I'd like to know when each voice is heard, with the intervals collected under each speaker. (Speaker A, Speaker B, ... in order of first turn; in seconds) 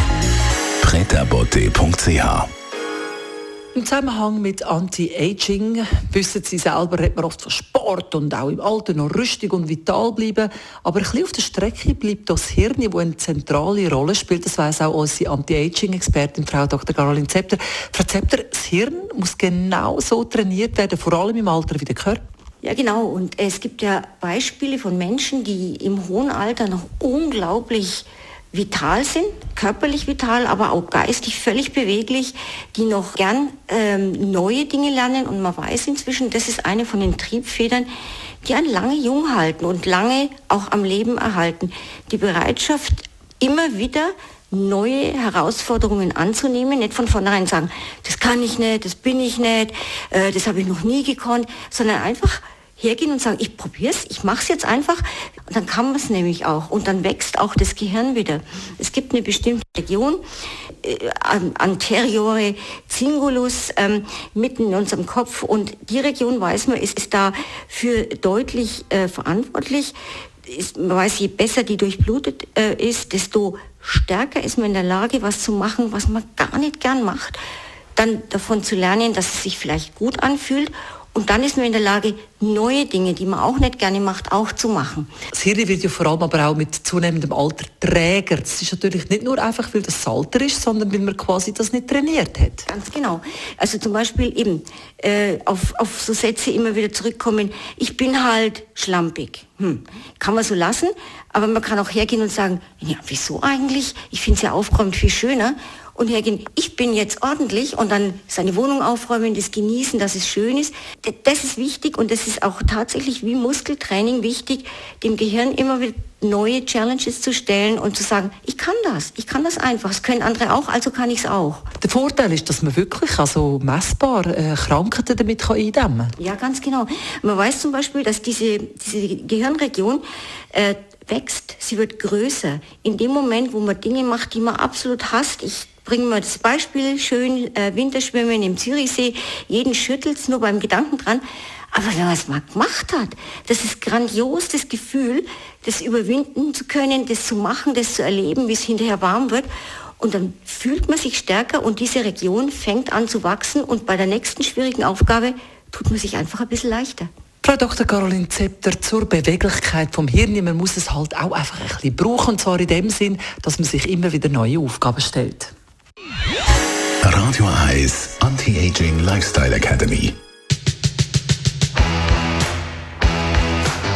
Speaker A: 0.8-2.5, 167.0-170.2
Speaker B: 3.7-22.2, 85.3-92.7, 121.8-126.1, 157.4-165.5
Speaker C: 22.6-37.9, 38.4-60.2, 60.8-70.0, 70.5-77.4, 77.9-85.1, 92.7-121.7, 126.2-157.1